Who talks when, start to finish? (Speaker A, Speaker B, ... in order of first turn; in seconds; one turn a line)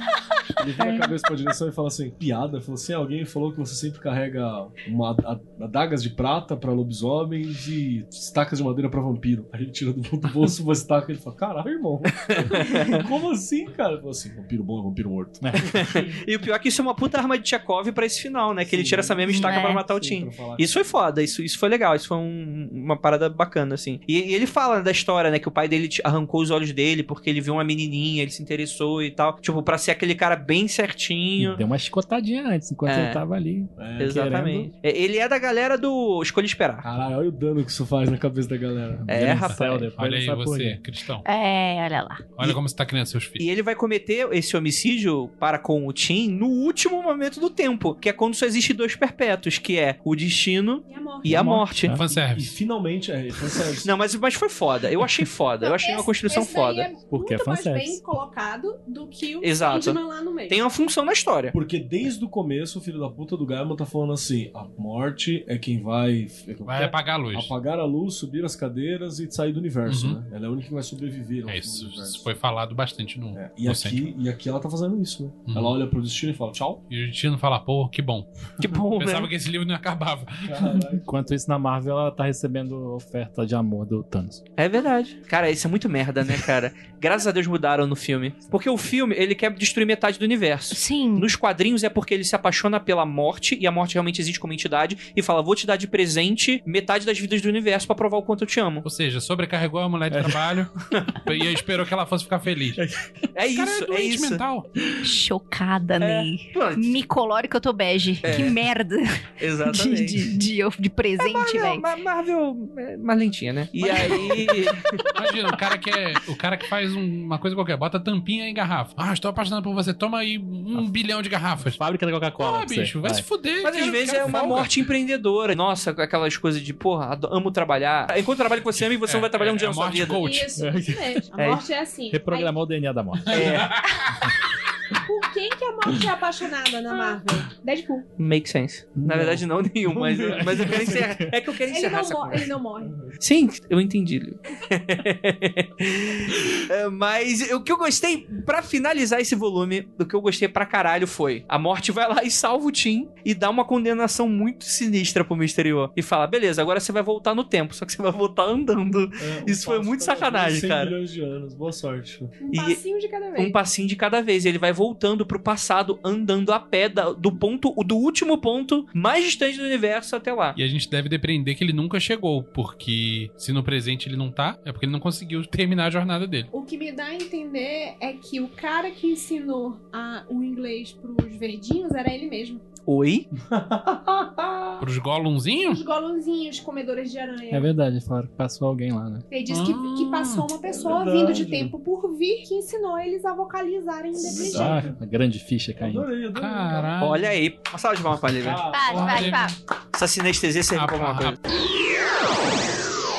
Speaker A: 0.6-16.2
Speaker B: 0.8-1.1
Speaker C: 12.2-13.0
Speaker D: 15.4-15.7
Speaker C: 15.6-31.6
Speaker A: 18.6-21.0
Speaker B: 19.3-19.9
Speaker D: 31.4-34.7
Speaker C: 32.9-33.2
Speaker A: 33.8-34.4
Speaker C: 34.0-36.8
Speaker A: 36.8-39.4
Speaker D: 38.9-40.8
Speaker C: 39.1-39.9
Speaker E: 39.3-41.2
Speaker B: 41.2-42.3
Speaker E: 42.3-43.4
Speaker C: 43.4-52.0
Speaker F: 50.9-51.5
Speaker A: 51.2-53.9
Speaker D: 51.3-52.0
Speaker E: 51.9-52.5
Speaker C: 53.8-56.9
Speaker F: 55.6-60.6
Speaker D: 57.1-58.0
Speaker C: 59.4-61.5
Speaker A: 61.5-72.3
Speaker E: 66.7-67.5
Speaker E: 69.9-70.2
Speaker E: 71.5-74.0
Speaker A: 73.3-76.8
Speaker E: 75.5-75.7
Speaker E: 76.9-80.7
Speaker C: 78.6-79.3
Speaker A: 80.4-81.3
Speaker D: 81.0-84.4
Speaker C: 84.6-98.8
Speaker B: 90.7-91.3
Speaker E: 98.8-100.7
Speaker A: 100.1-100.6
Speaker C: 100.9-101.3
Speaker E: 101.2-102.8
Speaker A: 102.7-103.2
Speaker C: 103.3-104.4
Speaker E: 103.5-104.7
Speaker B: 105.0-111.9
Speaker C: 106.0-107.0
Speaker C: 108.2-108.6
Speaker C: 109.4-110.3
Speaker C: 111.2-115.1
Speaker E: 113.8-114.5
Speaker E: 115.1-121.8
Speaker D: 121.7-123.2
Speaker E: 122.4-124.8
Speaker C: 123.6-130.2
Speaker E: 129.0-130.5
Speaker F: 130.2-132.6
Speaker D: 130.6-131.3
Speaker C: 131.4-131.6
Speaker D: 132.1-133.6
Speaker E: 133.3-134.3
Speaker C: 133.3-133.8
Speaker F: 134.9-138.1
Speaker C: 138.2-142.5
Speaker D: 139.0-139.4
Speaker A: 139.0-141.1
Speaker D: 140.1-141.3
Speaker F: 141.7-143.1
Speaker A: 142.8-143.1
Speaker C: 143.2-160.9
Speaker A: 159.2-162.3
Speaker F: 162.4-163.6
Speaker C: 162.5-162.8
Speaker C: 163.3-170.6
Speaker E: 170.5-176.5
Speaker F: 176.5-182.6
Speaker C: 182.8-183.3
Speaker A: 183.4-184.8
Speaker E: 184.8-185.8
Speaker F: 185.6-187.7
Speaker D: 187.5-189.2
Speaker F: 189.3-194.9
Speaker E: 189.5-190.5
Speaker A: 190.7-191.7
Speaker A: 194.2-195.0
Speaker D: 194.4-196.1
Speaker A: 195.8-196.9
Speaker E: 196.3-197.4
Speaker C: 197.0-198.7
Speaker A: 198.4-199.4
Speaker B: 198.7-199.6
Speaker E: 198.7-199.5
Speaker C: 199.9-201.4
Speaker E: 200.7-201.4